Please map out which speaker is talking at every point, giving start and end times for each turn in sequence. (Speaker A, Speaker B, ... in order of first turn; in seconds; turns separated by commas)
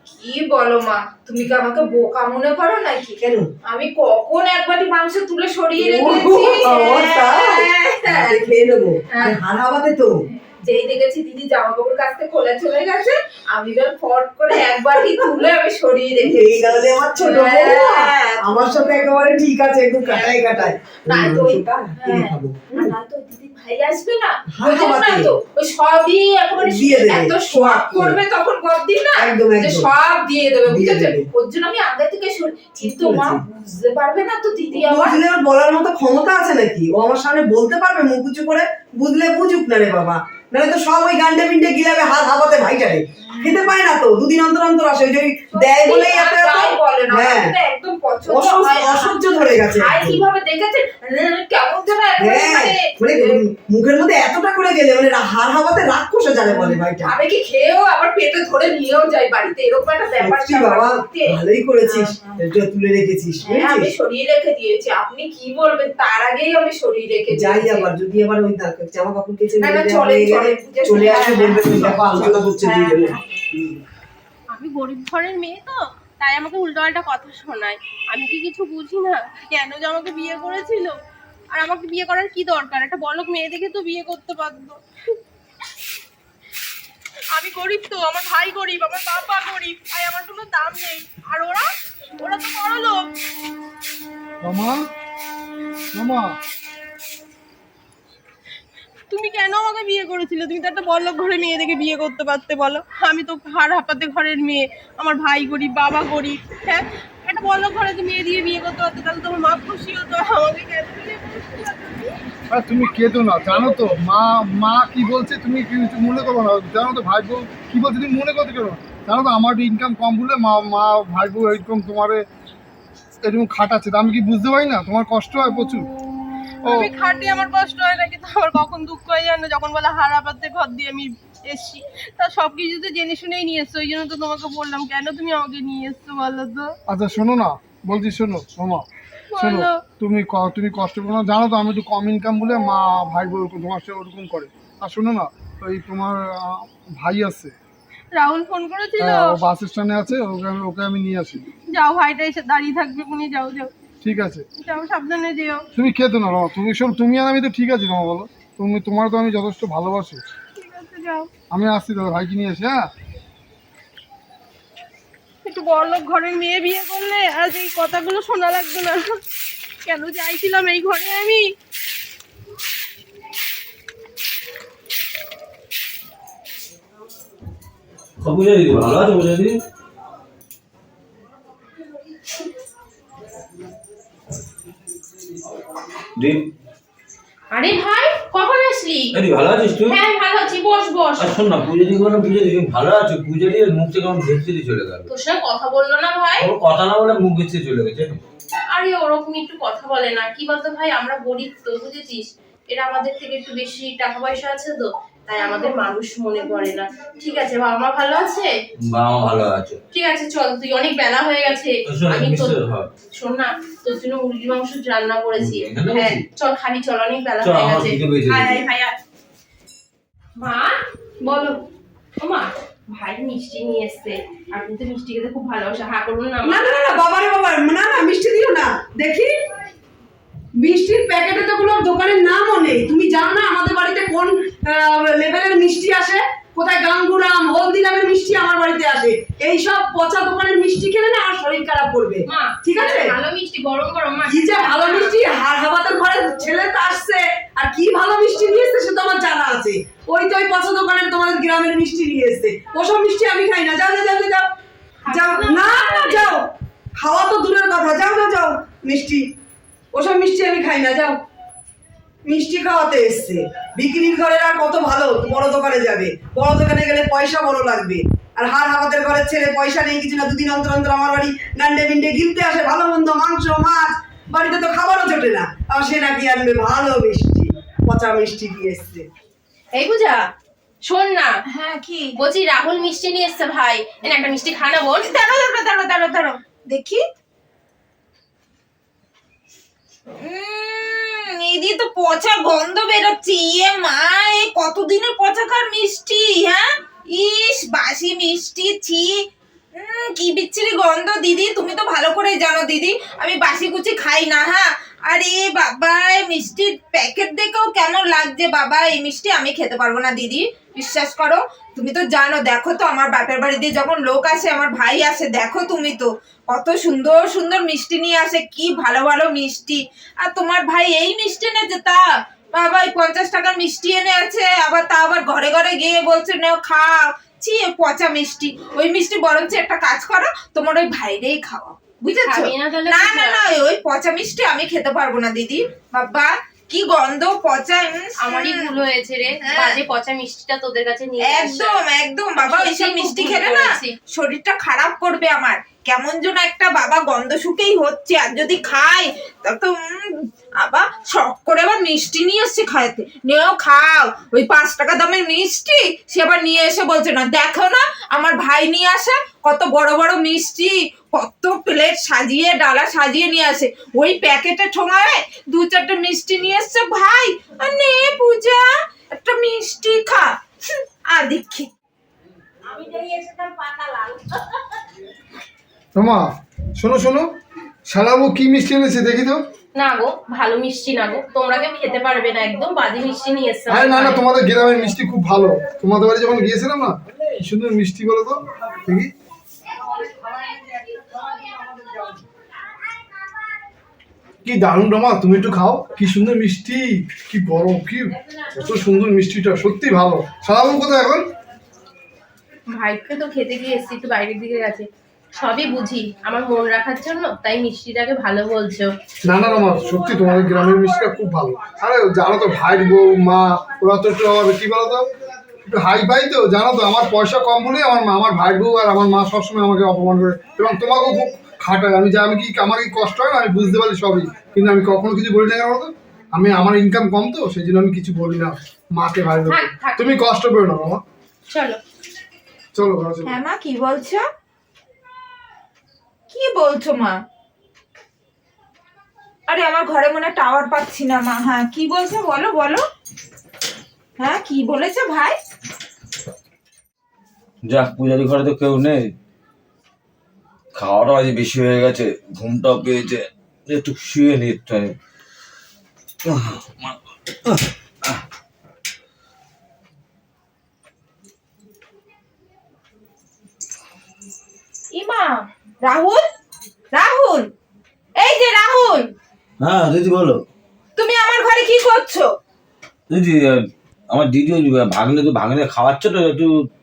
Speaker A: 0.2-8.4, Speaker B: 3.2-3.5, Speaker B: 5.8-10.2, Speaker A: 10.6-19.1, Speaker B: 16.2-22.9, Speaker A: 21.1-35.2, Speaker B: 24.5-25.3, Speaker B: 26.6-28.2, Speaker B: 29.1-29.9, Speaker B: 30.7-31.2, Speaker B: 32.8-33.4, Speaker B: 34.8-47.5, Speaker A: 45.5-53.4, Speaker B: 48.3-50.2, Speaker B: 52.2-57.1, Speaker A: 56.5-62.4, Speaker B: 60.2-63.9, Speaker A: 63.4-67.9, Speaker B: 67.3-73.8, Speaker A: 69.6-73.2, Speaker C: 74.5-81.0, Speaker C: 81.5-84.8, Speaker C: 87.3-93.1, Speaker D: 94.4-94.8, Speaker D: 95.9-96.4, Speaker C: 99.1-112.2, Speaker D: 112.5-122.3, Speaker C: 113.5-113.8, Speaker D: 123.2-125.9, Speaker D: 126.6-126.9, Speaker C: 126.7-136.7, Speaker D: 136.9-138.8, Speaker C: 139.3-139.8, Speaker D: 139.4-147.5, Speaker C: 148.1-149.4, Speaker D: 149.0-151.4, Speaker C: 151.7-153.7, Speaker D: 154.0-154.4, Speaker C: 154.6-155.7, Speaker D: 155.7-160.2, Speaker C: 160.5-161.3, Speaker D: 161.5-162.9, Speaker C: 165.4-169.2, Speaker C: 169.8-171.5, Speaker E: 178.2-179.6, Speaker E: 186.2-186.4, Speaker C: 187.5-189.1, Speaker E: 189.1-190.0, Speaker C: 189.9-191.3, Speaker E: 191.2-195.1, Speaker C: 195.1-196.5, Speaker E: 196.4-198.2, Speaker C: 198.7-208.5, Speaker E: 208.8-209.8, Speaker C: 209.9-212.6, Speaker E: 211.9-212.9, Speaker C: 213.1-218.0, Speaker E: 215.4-216.2, Speaker E: 217.4-218.6, Speaker A: 218.3-218.9, Speaker C: 220.4-220.8, Speaker B: 221.2-221.6, Speaker C: 222.2-226.7, Speaker B: 226.4-229.3, Speaker B: 230.6-243.1, Speaker C: 242.3-245.2, Speaker B: 244.3-254.5, Speaker C: 255.0-256.3, Speaker B: 255.1-256.4, Speaker B: 257.0-259.3, Speaker B: 259.9-261.2, Speaker B: 262.3-279.1, Speaker C: 279.7-280.3, Speaker C: 280.9-281.3, Speaker A: 281.5-282.2, Speaker C: 282.1-285.1, Speaker A: 285.0-287.0, Speaker A: 290.1-322.0, Speaker A: 322.5-338.7, Speaker C: 332.3-333.4, Speaker C: 338.2-341.8, Speaker A: 339.4-339.8, Speaker A: 341.2-371.7, Speaker C: 342.4-343.9, Speaker C: 372.9-373.3, Speaker D: 375.9-377.3, Speaker D: 377.9-379.4, Speaker C: 379.8-384.2, Speaker D: 383.7-389.1, Speaker D: 390.9-391.5, Speaker D: 394.4-401.3, Speaker C: 402.7-408.9, Speaker D: 409.2-415.1, Speaker D: 415.7-431.0, Speaker C: 429.5-430.1, Speaker C: 431.5-431.8, Speaker D: 432.7-433.4, Speaker A: 433.2-434.2, Speaker A: 436.3-437.2, Speaker A: 439.5-442.8, Speaker A: 444.2-445.4, Speaker E: 447.7-449.1, Speaker E: 450.8-454.9, Speaker E: 456.2-458.2, Speaker A: 464.9-466.2, Speaker A: 466.9-467.5, Speaker A: 468.2-469.1, Speaker E: 469.6-470.4, Speaker A: 471.0-472.3, Speaker E: 473.1-476.5